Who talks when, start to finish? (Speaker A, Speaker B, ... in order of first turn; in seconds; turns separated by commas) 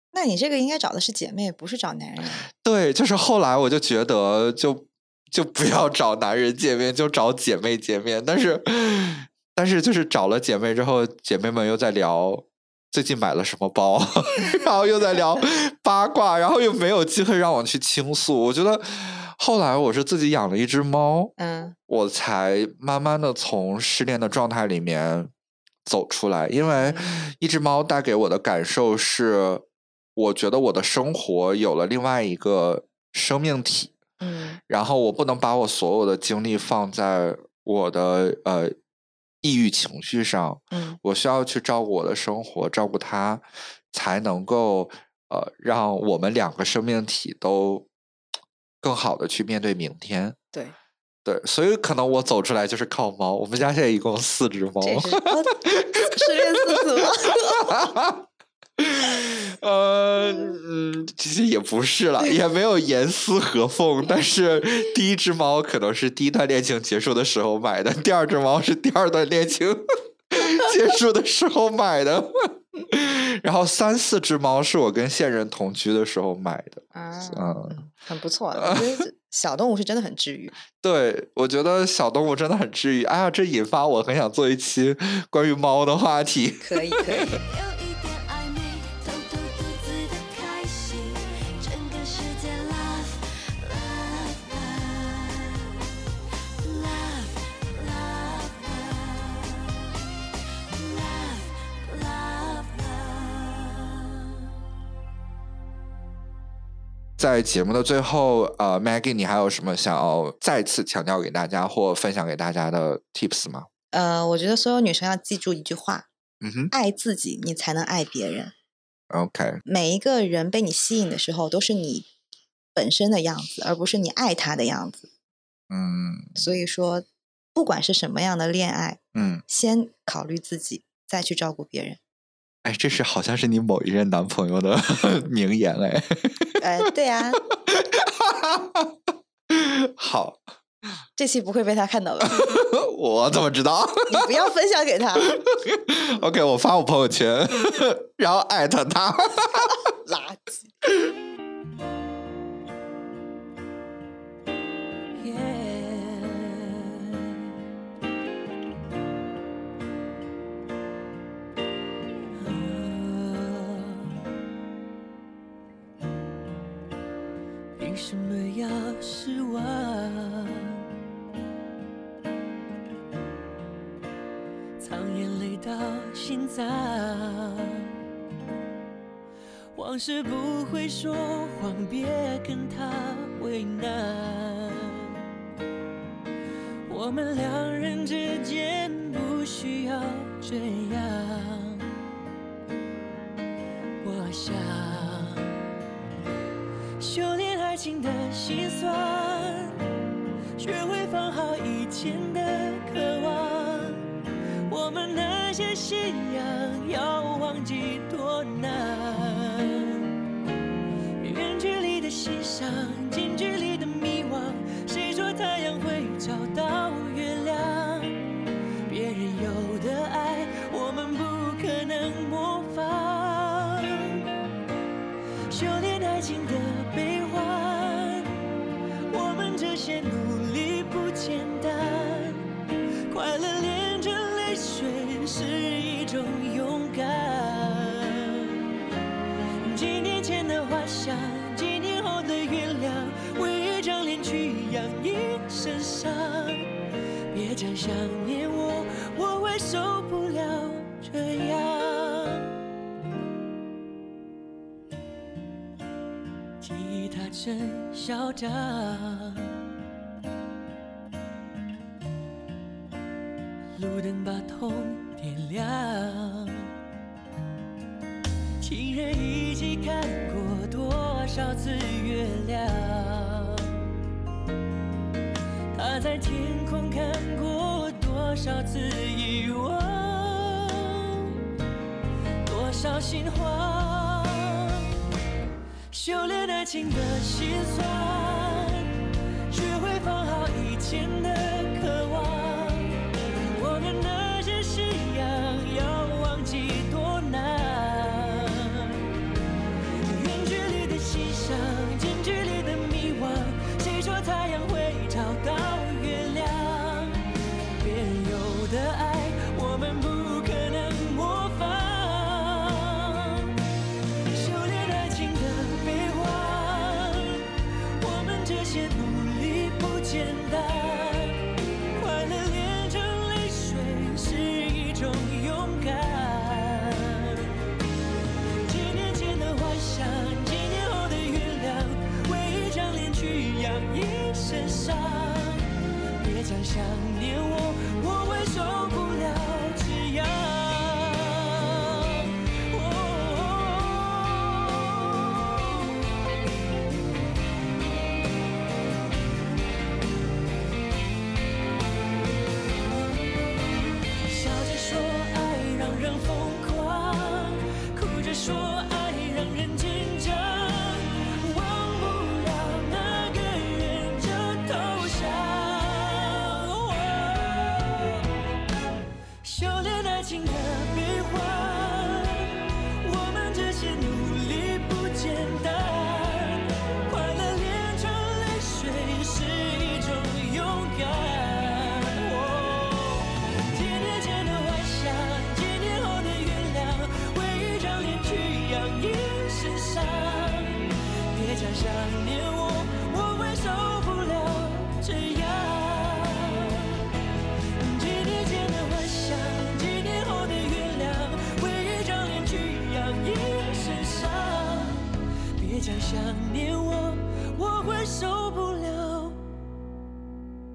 Speaker A: 0.1-2.5, Speaker B: 2.5-21.3, Speaker A: 14.4-15.1, Speaker A: 21.4-21.8, Speaker B: 21.9-25.3, Speaker B: 25.9-29.6, Speaker A: 26.8-27.3, Speaker B: 30.1-33.9, Speaker A: 34.2-34.6, Speaker B: 34.7-38.8, Speaker B: 39.4-47.9, Speaker A: 40.7-41.0, Speaker B: 48.8-50.4, Speaker B: 51.2-58.3, Speaker A: 54.8-57.8, Speaker B: 58.8-77.8, Speaker A: 76.9-80.6, Speaker B: 78.6-79.0, Speaker B: 80.7-87.4, Speaker A: 86.6-87.4, Speaker C: 87.3-95.7, Speaker C: 96.6-99.8, Speaker C: 100.6-104.2, Speaker B: 107.2-113.7, Speaker A: 113.9-116.1, Speaker B: 116.4-116.7, Speaker A: 116.7-118.5, Speaker B: 119.1-119.6, Speaker A: 119.7-122.1, Speaker A: 122.8-125.1, Speaker B: 125.7-126.4, Speaker A: 126.4-132.0, Speaker B: 129.2-129.4, Speaker B: 132.6-136.6, Speaker A: 136.6-137.4, Speaker B: 137.4-139.0, Speaker B: 139.5-140.4, Speaker A: 141.2-142.6, Speaker B: 142.3-144.4, Speaker A: 144.1-145.4, Speaker B: 145.2-149.8, Speaker A: 150.1-150.7, Speaker C: 155.2-157.5, Speaker C: 162.4-164.2, Speaker C: 167.8-170.8, Speaker C: 174.8-177.9, Speaker C: 179.8-185.1, Speaker C: 186.9-191.9, Speaker C: 194.0-195.5, Speaker C: 197.0-199.8, Speaker C: 200.6-204.1, Speaker C: 204.7-210.1, Speaker C: 211.2-218.2, Speaker C: 218.9-224.2, Speaker C: 225.5-228.3, Speaker C: 229.1-232.4, Speaker C: 233.1-238.6, Speaker C: 239.7-246.7, Speaker C: 247.3-252.5, Speaker C: 256.6-259.5, Speaker C: 263.8-266.7, Speaker C: 268.6-273.8, Speaker C: 275.7-281.3, Speaker C: 282.4-284.9, Speaker C: 285.9-288.9, Speaker C: 289.5-299.0, Speaker C: 300.0-307.2, Speaker C: 307.8-313.5, Speaker C: 314.3-327.5, Speaker C: 328.6-335.6, Speaker C: 336.2-345.7, Speaker C: 354.3-368.2, Speaker C: 369.4-397.1, Speaker C: 397.8-409.5